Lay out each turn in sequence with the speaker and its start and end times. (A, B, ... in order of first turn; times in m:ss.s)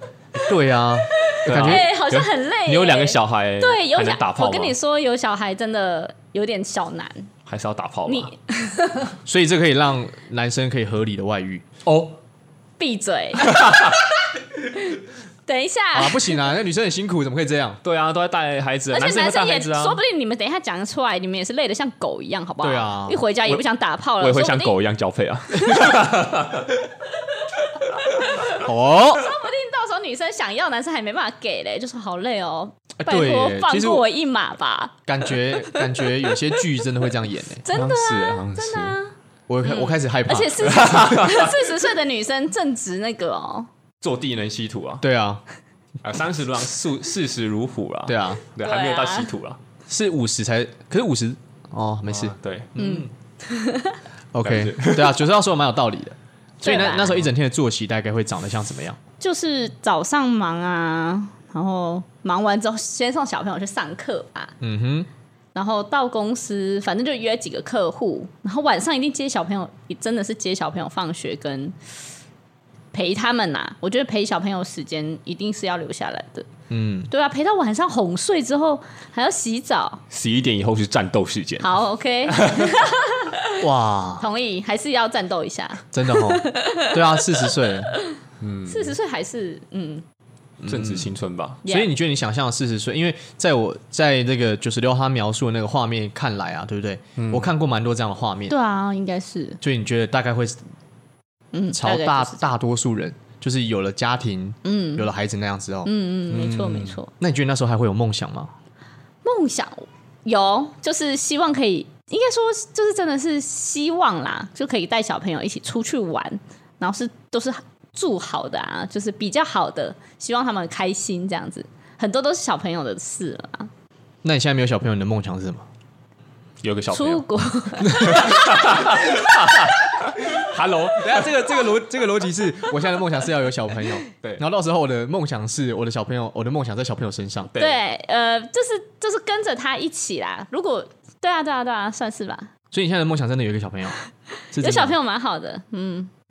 0:00.3-0:01.9 A
0:01.3-0:07.3 B
0:01.4-0:04.8 C
0:07.4-0:08.3 C
0:08.1-0:09.2 B
0:09.2-0:11.6 A
0:11.8-0:12.2 C
0:12.8-0:13.6 B
0:13.4-0:14.0 C
0:14.7-0:16.5 B
0:15.9-0:17.8 A
0:17.8-0:20.0 C
0:18.9-0:24.8 B
0:22.6-0:23.2 A
0:24.2-0:26.9 C
0:28.6-0:29.3 A
0:29.0-0:36.3 B
0:33.0-0:34.0 A
0:35.1-0:37.6 A
0:37.6-0:43.7 B
0:37.7-0:39.0 C
0:39.5-0:41.0 A
0:40.6-0:41.6 C
0:44.0-0:45.0 C
0:45.0-0:45.4 A
0:46.0-0:49.6 C
0:48.1-0:48.4 A
0:48.6-0:49.3 B
0:49.9-0:53.1 A
0:52.1-0:52.8 C
0:52.8-0:54.0 B
0:54.3-0:59.0 A
0:54.4-0:55.2 C
0:56.6-0:57.2 B
0:59.2-1:04.5 B
1:04.6-1:05.1 A
1:05.5-1:11.7 B
1:12.9-1:16.5 B
1:16.7-1:17.1 A
1:17.1-1:20.0 B
1:20.1-1:22.9 C
1:21.6-1:23.6 B
1:23.6-1:24.2 A
1:24.2-1:27.5 B
1:25.9-1:27.9 A
1:28.4-1:29.0 C
1:28.7-1:30.0 B
1:30.6-1:31.1 A
1:30.6-1:31.6 C
1:31.6-1:31.9 B
1:31.6-1:38.5 A
1:37.2-1:37.5 C
1:38.5-1:39.6 B
1:39.6-1:40.6 A
1:41.5-1:42.4 B
1:41.7-1:45.9 A
1:44.6-1:45.1 B
1:45.8-1:47.1 B
1:46.3-1:47.0 C
1:47.2-1:48.5 A
1:49.2-2:03.7 B
2:04.2-2:05.6 A
2:06.6-2:07.2 C
2:06.9-2:08.8 B
2:07.8-2:08.3 A
2:07.9-2:11.5 C
2:11.0-2:17.5 A
2:17.5-2:17.8 C
2:17.5-2:22.5 B
2:22.7-2:24.0 A
2:24.5-2:25.0 A
2:24.6-2:26.1 B